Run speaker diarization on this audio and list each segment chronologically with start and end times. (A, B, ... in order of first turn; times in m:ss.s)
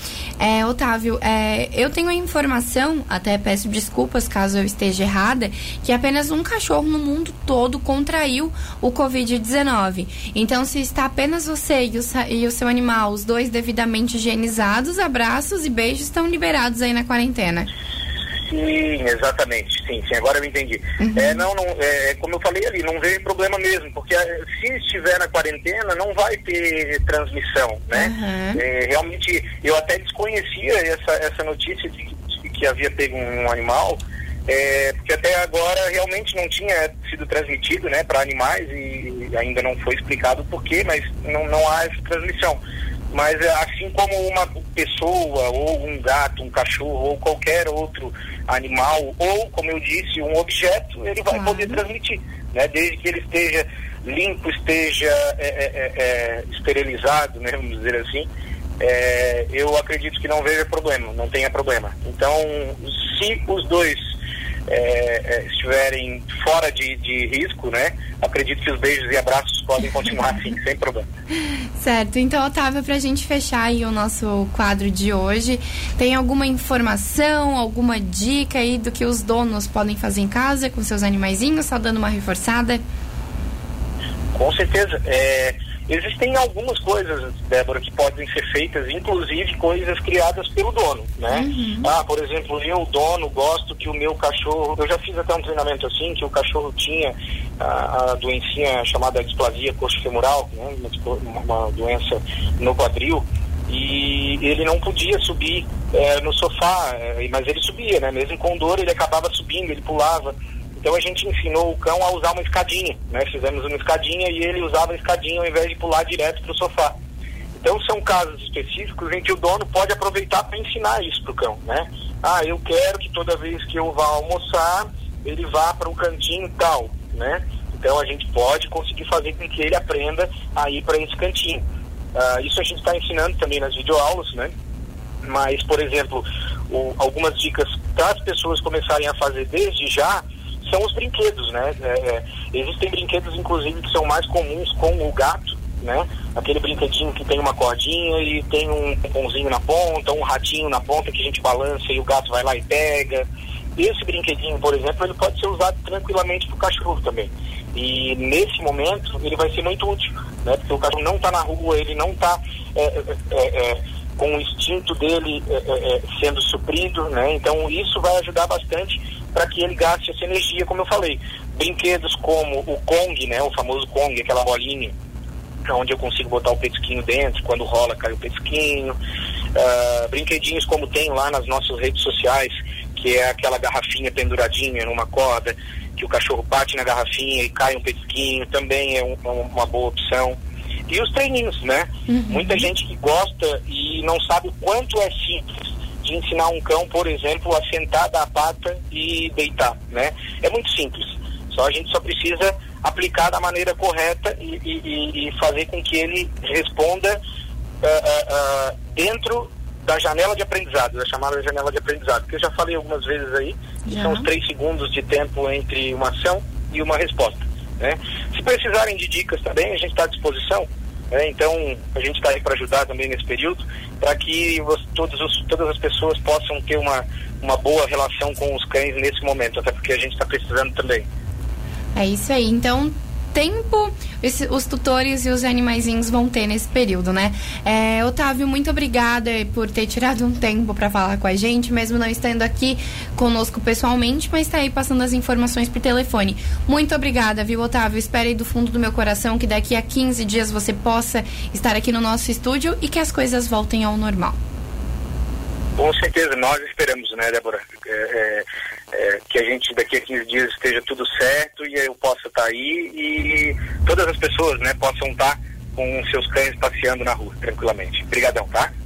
0:00.4-0:17.7 A
0:18.5-0:42.6 B
0:21.0-0:21.4 A
0:27.9-0:28.6 A
0:43.1-0:58.3 B
0:51.3-0:51.8 A
0:58.8-1:04.0 B
1:04.7-1:11.0 B
1:11.8-1:22.8 A
1:24.3-1:57.0 B
1:31.3-1:31.9 A
1:57.5-2:11.6 B
2:12.1-2:14.5 B
2:15.2-2:54.9 B
2:55.7-2:58.9 B
2:59.5-3:10.4 B
3:10.9-3:27.2 B
3:12.1-3:12.6 A
3:27.8-3:51.1 B
3:33.8-3:34.3 A
3:52.0-4:14.4 A
4:15.8-4:28.7 B